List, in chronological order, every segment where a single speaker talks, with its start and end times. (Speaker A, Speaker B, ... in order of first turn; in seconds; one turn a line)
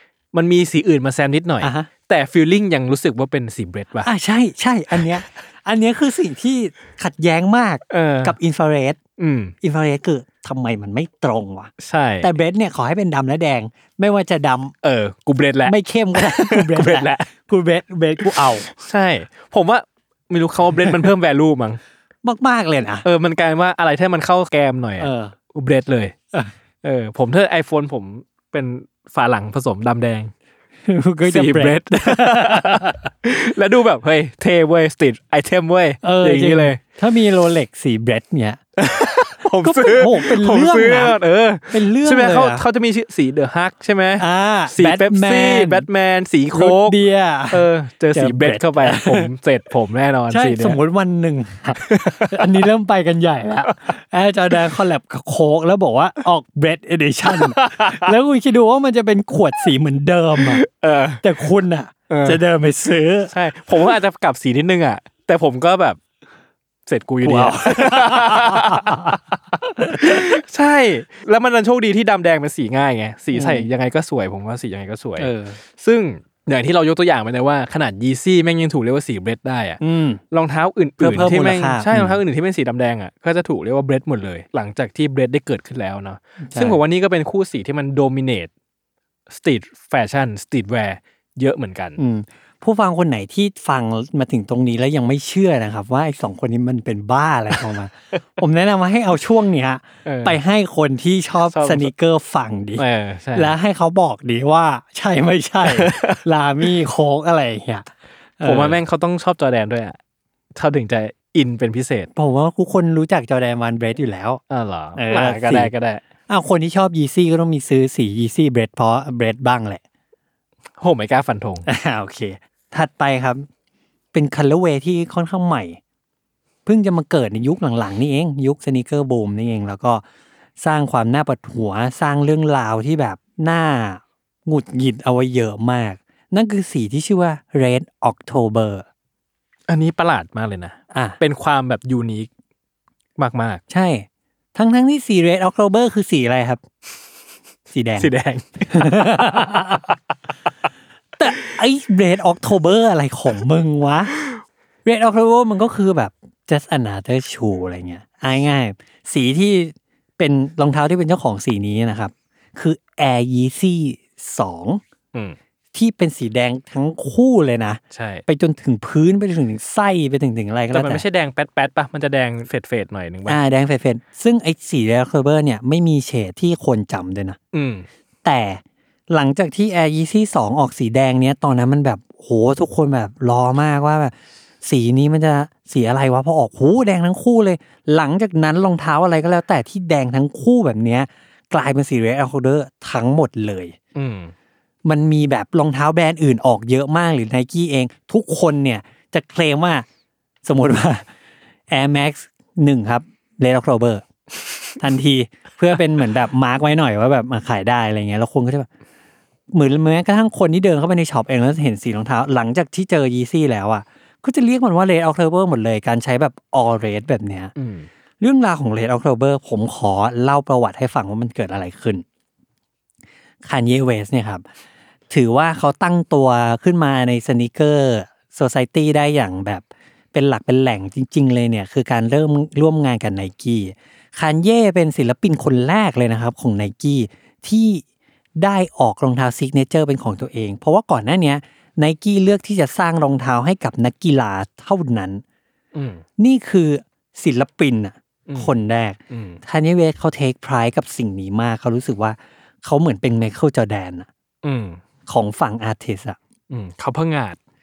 Speaker A: 0.3-4.1
Speaker B: 1.6-1.9
Speaker B: 4.0-9.0
Speaker A: 7.9-8.3
Speaker A: 9.2-9.5
Speaker B: 9.6-14.7
Speaker A: 11.8-12.3
Speaker A: 14.8-17.3
Speaker B: 15.7-18.7
Speaker A: 18.2-21.8
Speaker B: 22.2-23.0
Speaker A: 23.0-26.1
Speaker B: 25.0-25.3
Speaker A: 26.8-30.3
Speaker B: 30.9-33.0
Speaker A: 31.2-36.8
Speaker B: 36.0-38.6
Speaker A: 38.8-47.0
Speaker B: 39.6-41.2
Speaker B: 41.7-42.6
Speaker B: 44.2-45.9
Speaker B: 46.5-49.3
Speaker A: 47.5-50.8
Speaker B: 50.3-60.6
Speaker A: 51.8-52.6
Speaker A: 57.2-58.1
Speaker A: 60.4-61.2
Speaker B: 61.2-63.3
Speaker A: 62.1-62.4
Speaker A: 63.3-66.0
Speaker A: 66.8-69.1
Speaker B: 67.2-70.4
Speaker A: 69.8-88.5
Speaker B: 73.3-73.7
Speaker B: 75.2-75.6
Speaker B: 79.8-80.2
Speaker B: 81.0-82.2
Speaker B: 86.4-86.8
Speaker A: 89.3-92.0
Speaker B: 92.0-102.8
Speaker A: 100.0-100.4
Speaker A: 101.5-101.9
Speaker A: 102.8-103.5
Speaker B: 103.3-107.9
Speaker A: 105.6-106.2
Speaker B: 108.4-108.8
Speaker A: 108.4-110.0
Speaker A: 110.5-112.1
Speaker B: 112.1-114.4
Speaker A: 114.5-116.0
Speaker B: 114.9-115.7
Speaker B: 116.3-119.8
Speaker A: 120.8-121.7
Speaker B: 121.7-123.4
Speaker B: 124.1-125.8
Speaker B: 126.7-130.0
Speaker B: 130.6-138.8
Speaker A: 139.7-142.3
Speaker B: 140.9-141.2
Speaker A: 143.2-143.6
Speaker B: 143.7-146.6
Speaker B: 147.7-148.1
Speaker A: 148.0-149.2
Speaker B: 148.7-149.9
Speaker B: 151.2-154.1
Speaker B: 154.8-164.8
Speaker B: 165.7-171.0
Speaker A: 167.9-168.2
Speaker A: 170.7-173.4
Speaker B: 173.2-177.4
Speaker A: 177.5-177.8
Speaker B: 178.2-193.7
Speaker A: 193.9-194.3
Speaker B: 194.8-199.8
Speaker B: 200.4-201.1
Speaker B: 201.7-204.0
Speaker B: 204.8-208.7
Speaker B: 209.5-217.5
Speaker A: 217.6-217.9
Speaker B: 218.2-222.0
Speaker B: 223.4-224.4
Speaker B: 225.1-237.8
Speaker B: 238.4-245.2
Speaker A: 245.7-246.0
Speaker B: 246.2-254.1
Speaker A: 249.1-249.4
Speaker A: 254.4-254.8
Speaker B: 255.1-256.2
Speaker A: 256.5-257.4